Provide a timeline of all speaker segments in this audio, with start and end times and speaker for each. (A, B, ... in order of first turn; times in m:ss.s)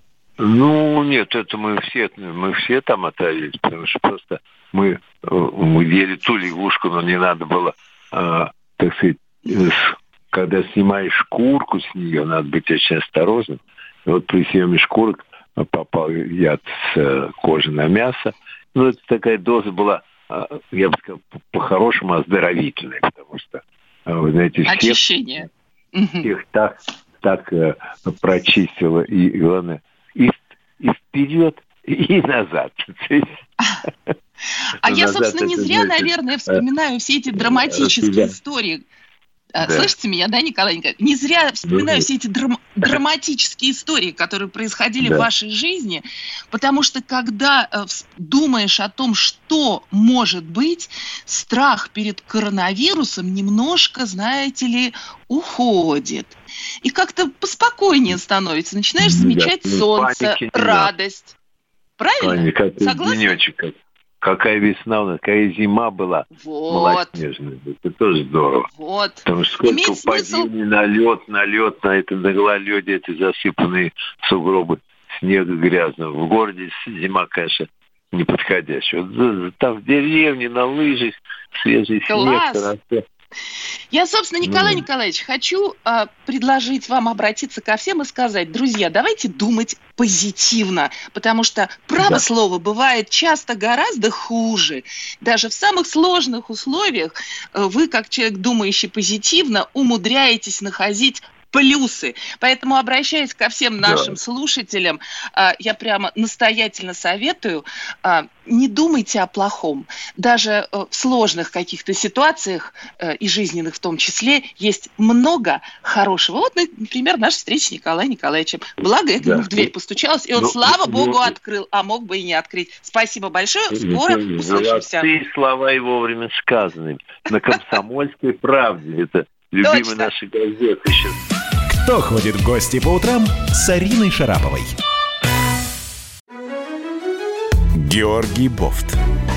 0:00.4-0:25.0 A
0:24.6-0:26.3 B
0:26.2-0:33.3 A
0:34.8-0:38.8 B
0:34.8-0:36.6 A
0:37.4-0:38.4 A
0:39.6-1:01.4 B
0:39.6-0:39.9 A
0:41.7-0:42.1 A
0:45.0-0:45.3 A
0:59.0-1:00.9 A
1:02.0-1:03.4 B
1:02.2-1:08.7 A
1:06.3-1:07.2 B
1:08.7-1:10.5 B
1:09.2-1:23.0 A
1:22.1-1:22.7 B
1:23.9-2:05.1 B
1:24.4-1:24.8 A
1:32.0-1:32.2 A
1:43.8-1:44.2 A
1:59.2-1:59.7 A
2:00.4-2:01.4 A
2:03.7-2:11.2 A
2:09.6-2:10.1 B
2:11.7-2:14.7 C
2:17.7-2:19.0 C